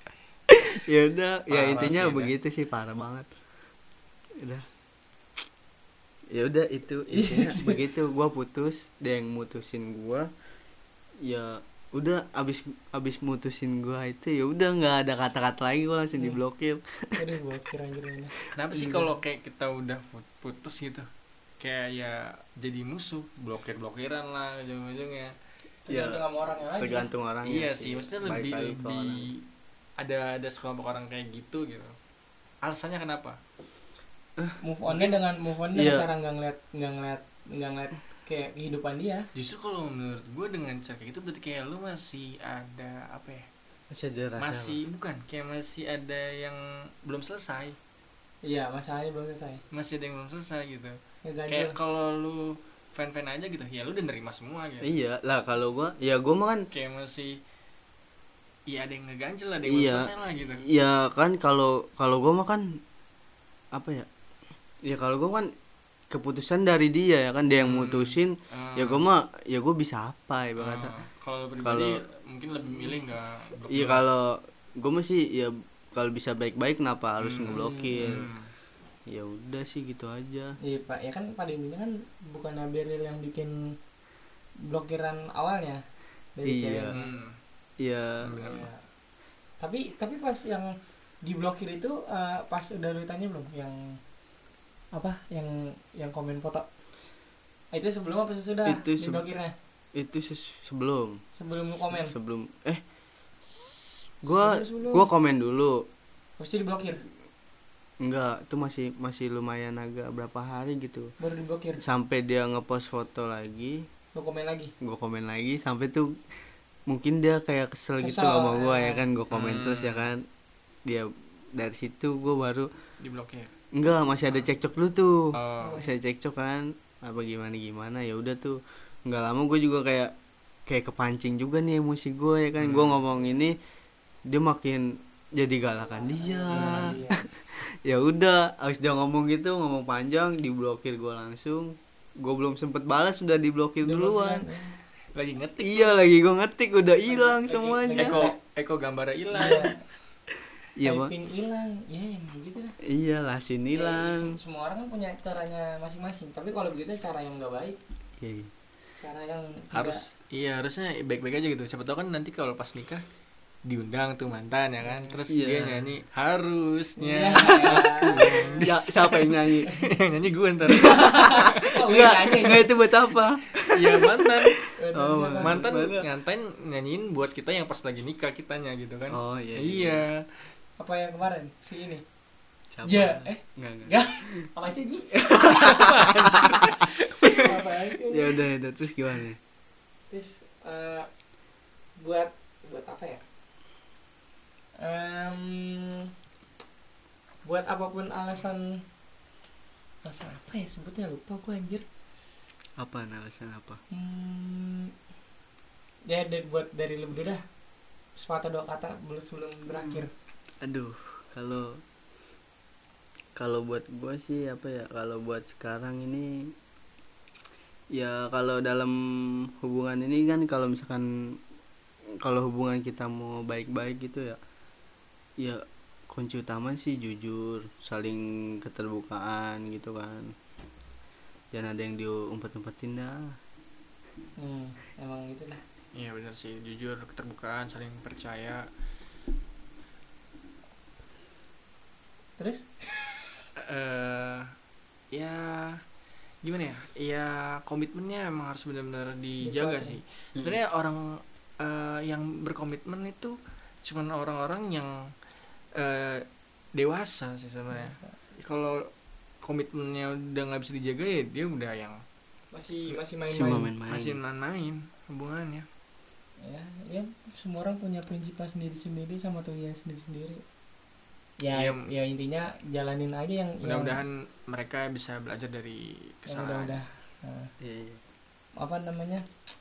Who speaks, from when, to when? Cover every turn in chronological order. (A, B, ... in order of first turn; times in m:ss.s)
0:00.5-0:03.3 A
0:01.5-0:02.3 B
0:04.4-0:04.6 A
0:06.3-0:10.3 A
0:07.1-0:07.8 C
0:11.2-0:17.2 A
0:17.2-0:18.4 C
0:18.4-0:19.0 A
0:18.5-0:21.1 B
0:21.6-0:25.3 B
0:25.9-0:27.1 C
0:25.9-0:26.2 A
0:26.8-0:29.3 A
0:27.4-0:29.4 B
0:30.0-0:31.9 B
0:32.6-0:33.4 B
0:34.6-0:39.3 C
0:34.9-0:35.2 B
0:35.7-0:36.1 A
0:39.4-0:43.4 B
0:43.9-0:44.8 A
0:44.4-0:47.8 B
0:48.4-0:49.6 C
0:49.7-0:51.0 B
0:51.2-0:51.7 C
0:51.5-0:54.9 B
0:54.8-0:56.6 A
0:56.7-0:57.4 B
0:58.7-1:00.6 B
0:59.7-1:00.1 A
1:00.7-1:02.8 A
1:03.7-1:04.1 A
1:04.9-1:05.5 A
1:06.1-1:10.9 A
1:07.6-1:09.0 B
1:10.6-1:14.0 B
1:11.6-1:12.0 A
1:13.7-1:18.2 A
1:17.2-1:18.5 B
1:17.5-1:18.2 C
1:19.1-1:20.5 A
1:20.6-1:23.5 C
1:24.6-1:25.8 C
1:26.4-1:27.2 C
1:26.4-1:26.9 A
1:26.9-1:27.4 B
1:27.8-1:28.2 A
1:28.2-1:28.7 B
1:28.4-1:28.8 C
1:29.6-1:34.0 C
1:34.9-1:36.6 C
1:37.7-1:39.5 C
1:38.6-1:39.2 A
1:39.9-1:41.2 A
1:41.3-1:42.1 C
1:41.9-1:42.8 A
1:43.5-1:45.8 A
1:44.3-1:45.1 C
1:46.4-1:47.0 C
1:48.0-1:51.1 A
1:51.2-1:51.8 C
1:51.8-1:53.8 A
1:54.1-1:54.7 C
1:54.8-1:56.2 A
1:56.9-2:00.2 A
1:58.0-1:59.1 C
1:59.3-2:00.1 B
2:00.9-2:02.7 A
2:03.0-2:03.5 B
2:03.8-2:10.1 A
2:05.3-2:05.8 B
2:05.6-2:05.9 C
2:10.7-2:13.6 A
2:12.6-2:13.0 B
2:14.3-2:24.4 A
2:15.9-2:17.2 C
2:16.5-2:16.9 B
2:23.8-2:24.8 C
2:25.1-2:26.0 B
2:25.6-2:28.2 A
2:27.1-2:28.4 C
2:27.9-2:29.7 B
2:29.3-2:29.8 C
2:30.8-2:31.1 A
2:30.8-2:32.7 C
2:32.9-2:34.3 A
2:33.7-2:37.8 C
2:38.2-2:38.5 A
2:39.0-2:40.0 C
2:39.7-2:43.0 B
2:43.7-2:51.5 B
2:44.8-2:45.2 C
2:45.3-2:45.9 A
2:47.0-2:48.6 C
2:47.6-2:49.7 A
2:50.7-2:56.0 A
2:50.8-2:52.7 C
2:53.6-2:54.6 B
2:54.8-2:55.6 C
2:55.4-3:00.3 B
2:59.1-3:00.1 A
3:00.8-3:02.0 C
3:02.7-3:04.5 A
3:02.8-3:08.4 C
3:05.1-3:09.4 A
3:05.3-3:07.3 B
3:10.1-3:11.1 C
3:12.0-3:13.2 C
3:14.8-3:16.1 C
3:17.4-3:18.8 C
3:20.0-3:21.8 C
3:22.8-3:23.8 A
3:23.9-3:24.9 C
3:26.1-3:27.4 C
3:28.2-3:30.1 C
3:29.7-3:30.1 A
3:30.6-3:31.8 A
3:33.4-3:36.5 A
3:37.9-3:41.1 A
3:42.2-3:44.4 A
3:45.4-3:50.3 A
3:51.5-3:53.3 A
3:54.4-3:55.6 C
3:55.9-3:58.7 B
4:02.4-4:03.4 C
4:03.6-4:04.5 B
4:05.1-4:05.8 B
4:06.4-4:14.9 B
4:09.4-4:10.0 C
4:15.8-4:18.9 B
4:17.7-4:18.2 C
4:19.4-4:22.0 B
4:22.5-4:23.7 C
4:23.3-4:24.2 A
4:23.8-4:25.6 B
4:26.4-4:30.4 C
4:31.4-4:34.0 C
4:31.5-4:31.8 B
4:33.6-4:36.8 B
4:36.3-4:37.5 C
4:37.6-4:38.0 A
4:38.6-4:39.2 C